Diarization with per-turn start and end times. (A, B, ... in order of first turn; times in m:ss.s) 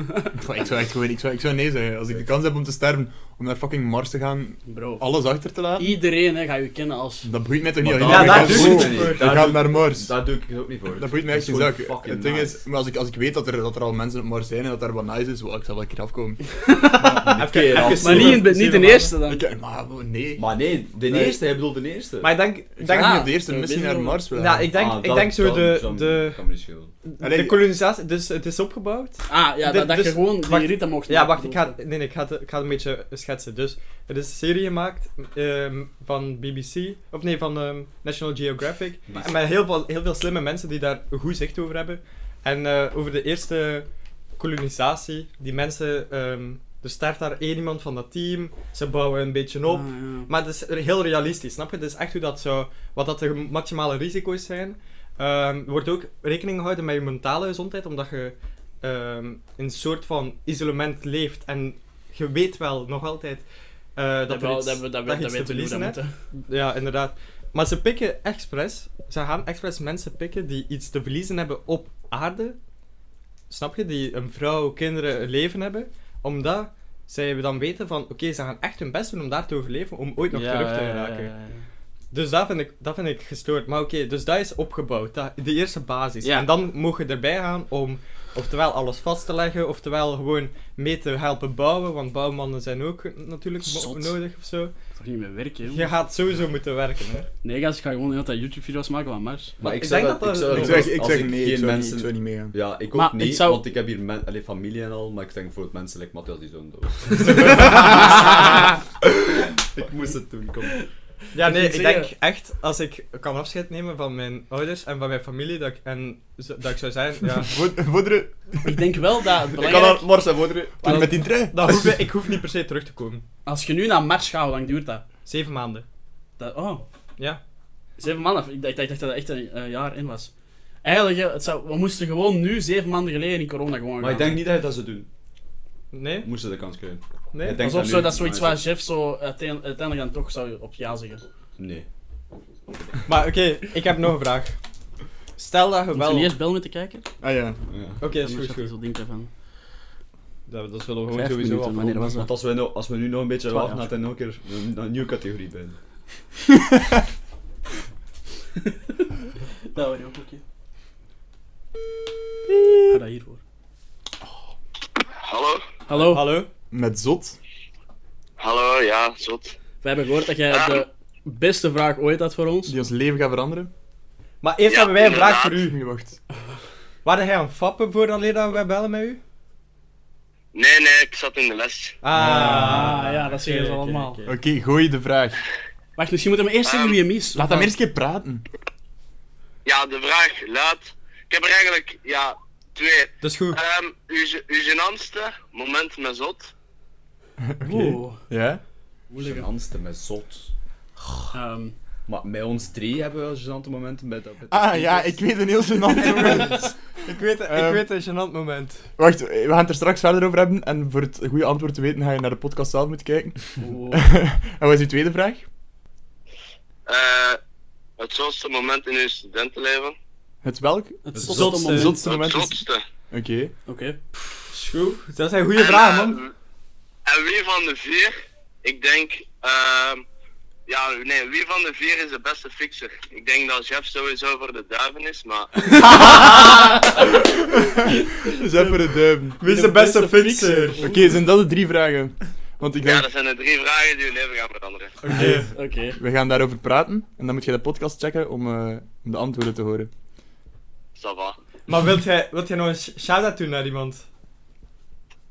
0:00.3-0:05.9 A
0:04.7-0:05.0 B
0:05.8-0:07.3 B
0:07.2-0:10.1 A
0:07.8-0:12.6 C
0:08.0-0:09.5 D
0:11.0-0:16.6 A
0:16.7-0:19.4 B
0:17.1-0:18.4 C
0:17.4-0:19.1 D
0:19.2-0:20.5 A
0:20.4-0:22.3 C
0:21.0-0:21.4 A
0:22.2-0:23.3 D
0:22.8-0:24.7 A
0:22.9-0:24.2 B
0:24.3-0:26.4 D
0:24.7-0:26.9 C
0:27.1-1:03.4 D
0:27.2-0:27.6 A
0:29.3-0:31.8 B
0:39.1-0:39.4 C
0:49.7-0:50.3 B
1:04.0-1:12.6 D
1:04.3-1:06.1 B
1:13.5-1:21.3 D
1:20.3-1:21.6 B
1:22.1-1:34.7 D
1:26.2-1:26.5 B
1:33.6-1:34.1 B
1:35.0-1:35.9 B
1:35.7-1:37.3 D
1:37.4-1:39.6 B
1:39.6-1:48.7 C
1:39.6-1:41.0 D
1:40.5-1:42.5 A
1:43.0-1:43.6 B
1:47.4-1:48.1 D
1:49.4-1:50.8 C
1:51.3-1:57.6 D
1:51.4-1:52.1 B
1:57.4-1:58.8 A
1:58.6-2:00.1 B
1:59.6-2:01.0 C
2:00.8-2:02.1 A
2:00.8-2:03.2 D
2:03.4-2:05.0 B
2:05.2-2:05.8 D
2:06.4-2:06.8 B
2:08.0-2:10.3 B
2:10.8-2:14.4 B
2:14.0-2:15.1 C
2:15.9-2:16.3 D
2:16.2-2:18.6 C
2:17.3-2:17.6 D
2:17.6-2:21.2 B
2:21.6-2:21.9 C
2:23.0-2:24.6 D
2:25.4-2:26.3 D
2:25.9-2:27.1 B
2:27.2-2:27.6 A
2:27.7-2:28.0 C
2:28.0-2:28.7 D
2:28.2-2:29.3 B
2:30.5-2:32.1 D
2:31.1-2:32.3 B
2:32.1-2:35.8 C
2:33.5-2:33.9 B
2:39.7-2:40.4 B
2:42.9-2:43.4 B
2:45.2-2:45.6 E
2:45.9-2:46.3 B
2:45.9-2:46.5 D
2:46.7-2:47.4 A
2:48.4-2:49.6 E
2:49.8-2:52.8 B
2:50.5-2:50.8 E
2:52.6-2:53.7 A
2:54.4-2:55.8 D
2:54.6-2:55.6 E
2:55.6-2:56.2 A
2:57.0-2:59.2 D
3:00.5-3:02.0 E
3:02.0-3:04.3 D
3:02.1-3:03.0 A
3:02.2-3:04.3 B
3:04.3-3:05.4 A
3:06.0-3:07.7 B
3:06.6-3:07.0 E
3:07.3-3:08.4 A
3:09.6-3:16.5 E
3:13.2-3:13.6 D
3:17.5-3:18.6 A
3:17.6-3:18.3 B
3:19.1-3:19.5 B
3:19.2-3:20.5 C
3:21.3-3:21.7 B
3:22.1-3:25.2 C
3:24.5-3:26.8 A
3:26.0-3:28.9 D
3:26.2-3:26.5 B
3:27.5-3:27.8 A
3:29.0-3:35.4 A
3:33.6-3:34.0 B
3:36.9-3:37.4 E
3:38.0-3:40.0 E
3:40.4-3:43.5 A
3:41.0-3:42.0 B
3:41.1-3:41.5 C
3:41.3-3:42.0 D
3:42.0-3:42.8 E
3:43.7-3:44.0 B
3:44.5-3:46.2 D
3:45.6-3:46.3 E
3:47.1-3:50.0 E
3:50.7-3:56.3 E
3:55.8-3:56.6 B
3:56.0-3:56.6 D
3:57.6-3:59.4 A
3:59.4-4:00.9 D
3:59.4-4:01.1 B
4:00.8-4:03.1 A
4:02.8-4:05.0 E
4:05.0-4:05.5 D
4:05.1-4:09.9 A
4:05.2-4:06.0 B
4:11.0-4:11.4 E
4:11.7-4:14.0 D